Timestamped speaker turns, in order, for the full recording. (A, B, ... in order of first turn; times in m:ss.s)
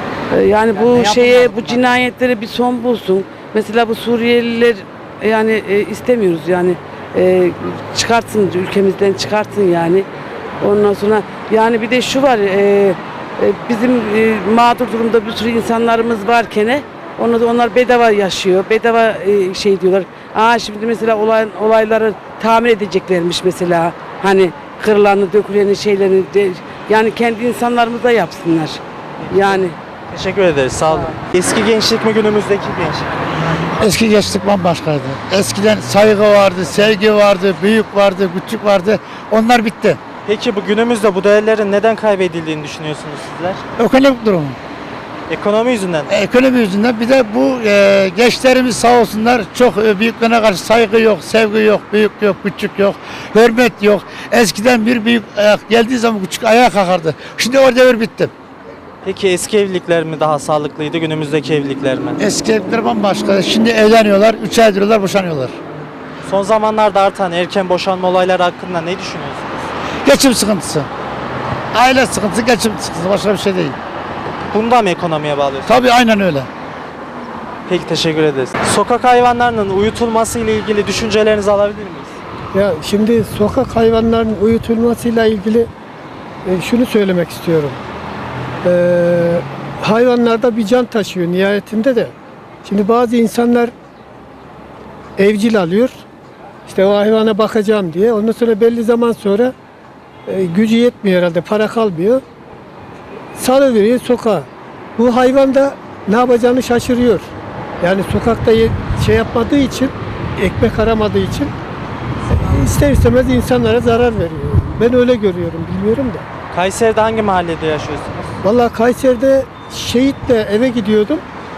0:00.3-0:10.1 A
0:00.7-0:02.0 B
0:10.6-0:29.8 A
0:29.2-0:33.4 B
0:33.8-0:40.0 C
0:40.2-0:43.6 B
0:43.8-0:44.6 C
0:45.3-0:46.1 B
0:46.1-0:58.3 C
0:59.0-1:02.2 B
1:02.2-1:05.6 C
1:06.2-1:09.7 B
1:10.0-1:10.9 C
1:11.7-1:13.8 C
1:14.5-1:15.7 B
1:15.7-1:16.5 C
1:17.7-1:22.2 B
1:22.5-1:25.7 D
1:26.4-1:27.8 D
1:28.6-1:32.1 D
1:32.6-1:33.7 D
1:35.2-1:36.0 D
1:36.7-1:39.5 D
1:40.3-1:42.2 D
1:43.4-1:44.4 D
1:45.0-1:47.3 D
1:47.8-1:51.5 D
1:52.3-1:56.2 D
1:56.5-1:58.4 B
1:58.4-2:01.2 D